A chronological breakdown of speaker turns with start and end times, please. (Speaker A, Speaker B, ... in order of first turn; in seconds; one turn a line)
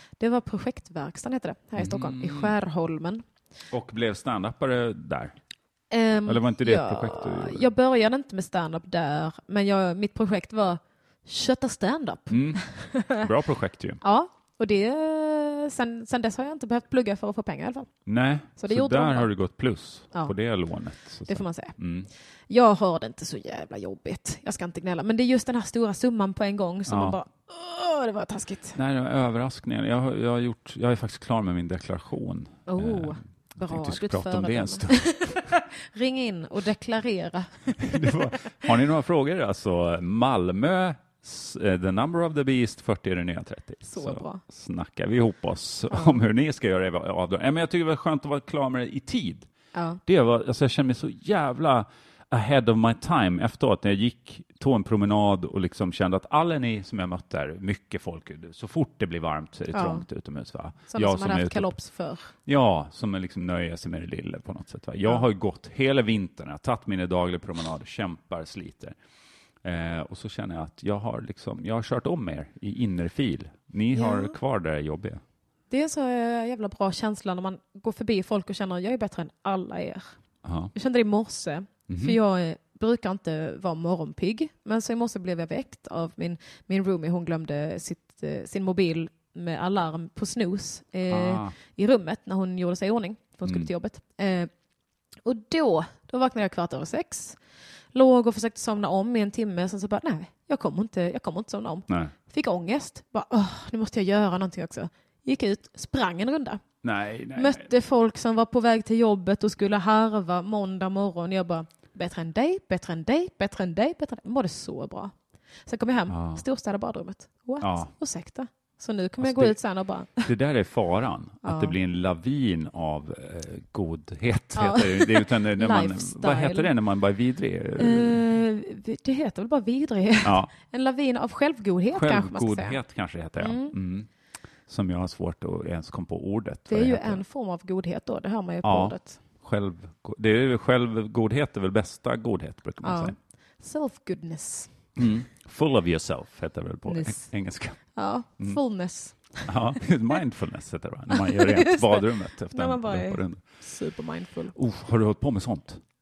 Speaker A: 0.2-3.2
Speaker B: 1.8-2.5
Speaker B: 3.7-5.3
Speaker A: 5.9-13.2
Speaker B: 6.2-7.6
Speaker B: 12.3-14.0
Speaker A: 14.0-17.9
Speaker B: 18.1-22.1
Speaker A: 18.6-19.3
Speaker A: 21.3-21.7
Speaker A: 22.5-28.8
Speaker B: 26.9-27.2
Speaker B: 28.7-35.5
Speaker A: 32.7-37.9
Speaker B: 37.8-49.5
Speaker A: 43.9-44.4
Speaker A: 45.9-46.2
Speaker A: 49.7-50.0
Speaker B: 50.0-61.7
Speaker A: 59.7-60.0
Speaker A: 60.9-62.3
Speaker B: 62.4-69.0
Speaker B: 69.6-75.2
Speaker A: 73.9-74.3
Speaker A: 75.7-80.1
Speaker B: 80.4-80.7
Speaker A: 80.7-94.5
Speaker B: 81.9-82.2
Speaker B: 91.1-91.5
Speaker A: 95.2-97.4
Speaker A: 97.9-106.6
Speaker B: 106.8-107.7
Speaker A: 107.3-115.1
Speaker A: 115.7-120.3
Speaker B: 116.1-116.4
Speaker B: 117.6-117.9
Speaker B: 119.2-119.6
Speaker B: 120.2-128.2
Speaker A: 121.4-121.8
Speaker A: 124.5-126.7
Speaker A: 127.8-132.8
Speaker B: 130.2-130.5
Speaker B: 131.9-134.1
Speaker A: 133.4-133.7
Speaker B: 134.7-137.2
Speaker A: 136.7-139.2
Speaker B: 138.6-143.2
Speaker A: 142.8-144.7
Speaker B: 144.9-147.8
Speaker A: 146.9-149.5
Speaker B: 149.4-153.4
Speaker A: 151.1-154.5
Speaker B: 154.5-155.8